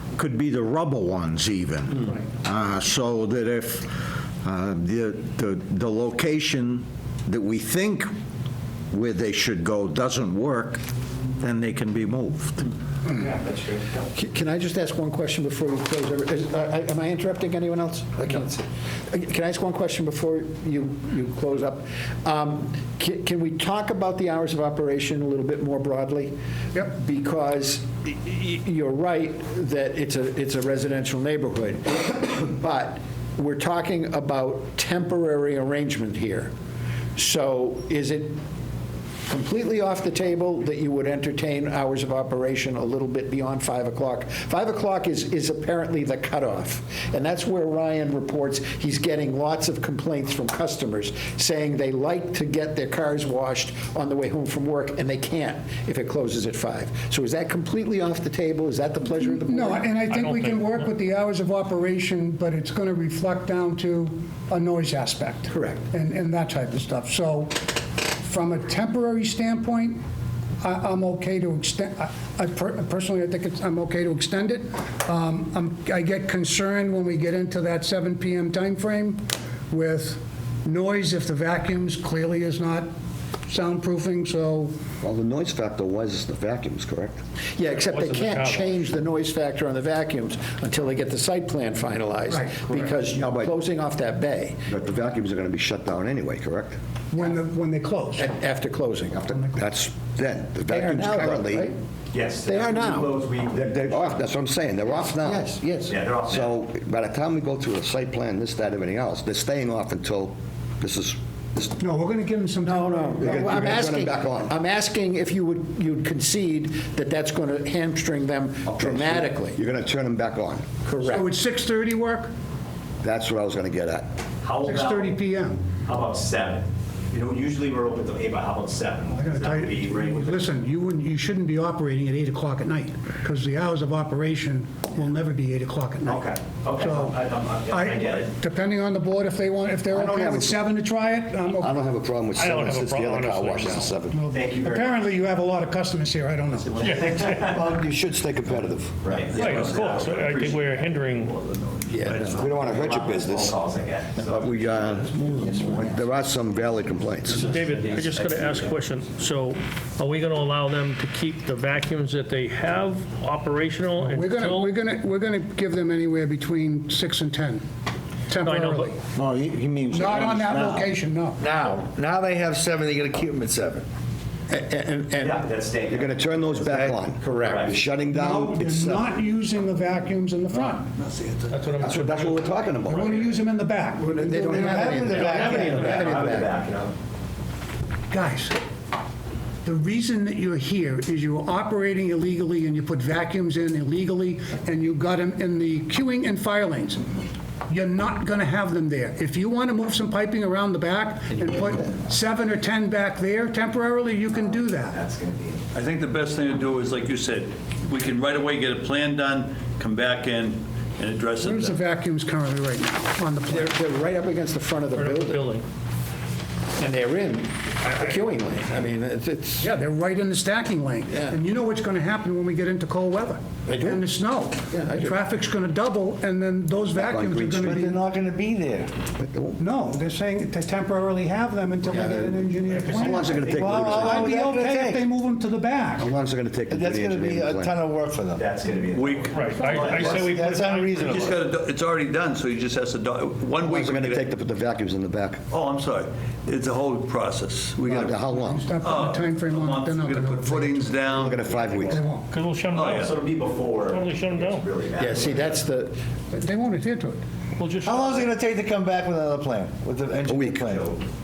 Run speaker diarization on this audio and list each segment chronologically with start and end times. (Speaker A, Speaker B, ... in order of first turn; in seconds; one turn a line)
Speaker A: 0.2-8.1
Speaker A: 8.9-10.8
Speaker A: 11.4-12.6
Speaker B: 13.1-14.0
Speaker C: 14.1-36.5
Speaker C: 37.2-38.4
Speaker C: 39.3-59.9
Speaker D: 59.2-70.0
Speaker E: 60.1-60.8
Speaker C: 65.5-65.8
Speaker D: 70.6-82.9
Speaker D: 83.5-84.7
Speaker F: 85.0-87.2
Speaker C: 87.6-94.6
Speaker E: 87.7-88.8
Speaker D: 92.3-92.9
Speaker F: 94.7-96.8
Speaker D: 97.1-98.3
Speaker C: 98.2-99.5
Speaker F: 99.4-101.7
Speaker C: 100.7-101.8
Speaker B: 102.1-104.0
Speaker C: 102.4-103.1
Speaker F: 103.5-105.5
Speaker C: 105.2-106.0
Speaker B: 105.9-106.5
Speaker F: 106.3-111.8
Speaker D: 111.8-113.7
Speaker C: 112.6-119.6
Speaker F: 113.2-114.5
Speaker F: 118.7-120.7
Speaker C: 120.8-121.3
Speaker D: 121.1-122.3
Speaker F: 123.0-124.1
Speaker B: 124.4-125.2
Speaker D: 124.6-125.7
Speaker B: 125.7-130.5
Speaker D: 129.1-141.8
Speaker B: 136.1-138.3
Speaker F: 139.9-140.6
Speaker F: 141.4-144.2
Speaker E: 142.3-143.9
Speaker D: 143.7-147.1
Speaker B: 144.3-145.1
Speaker B: 146.5-147.8
Speaker E: 146.8-147.2
Speaker F: 147.4-149.1
Speaker B: 149.0-156.1
Speaker G: 149.4-149.9
Speaker E: 149.4-151.3
Speaker C: 151.9-152.4
Speaker G: 152.0-152.4
Speaker F: 152.2-153.6
Speaker F: 154.2-157.4
Speaker E: 157.3-164.7
Speaker B: 157.3-158.8
Speaker D: 164.0-167.6
Speaker D: 168.3-169.0
Speaker E: 168.4-168.9
Speaker A: 169.2-170.9
Speaker D: 169.9-171.4
Speaker H: 171.4-173.8
Speaker C: 174.5-175.4
Speaker B: 175.2-176.6
Speaker F: 175.9-179.1
Speaker C: 177.2-177.7
Speaker B: 177.4-177.8
Speaker D: 178.1-180.9
Speaker G: 181.0-181.5
Speaker E: 181.5-182.5
Speaker F: 181.8-183.2
Speaker D: 182.9-186.0
Speaker C: 184.1-186.6
Speaker H: 184.4-186.2
Speaker B: 185.6-186.9
Speaker D: 188.1-188.6
Speaker D: 189.7-197.1
Speaker D: 197.7-205.0
Speaker B: 204.7-205.7
Speaker G: 205.7-211.8
Speaker D: 211.4-213.7
Speaker C: 213.5-215.5
Speaker E: 214.9-215.6
Speaker C: 216.8-219.7
Speaker D: 219.6-228.0
Speaker C: 221.1-221.4
Speaker C: 223.7-224.0
Speaker C: 224.7-225.2
Speaker F: 226.9-228.0
Speaker H: 227.6-228.9
Speaker F: 229.2-229.6
Speaker D: 229.6-236.1
Speaker F: 232.7-234.3
Speaker H: 233.4-235.1
Speaker F: 236.0-237.8
Speaker H: 236.7-238.4
Speaker B: 238.3-240.3
Speaker G: 238.9-239.4
Speaker E: 239.3-241.3
Speaker H: 239.8-241.4
Speaker G: 241.1-244.3
Speaker F: 243.6-245.4
Speaker G: 245.5-248.1
Speaker F: 247.8-248.7
Speaker D: 247.9-251.0
Speaker G: 248.8-252.0
Speaker F: 251.1-252.0
Speaker D: 251.9-252.3
Speaker E: 252.3-254.7
Speaker G: 252.7-253.1
Speaker B: 252.9-255.6
Speaker C: 255.0-256.0
Speaker D: 256.3-257.2
Speaker E: 257.6-258.4
Speaker H: 257.8-260.8
Speaker F: 260.2-260.6
Speaker B: 260.6-261.0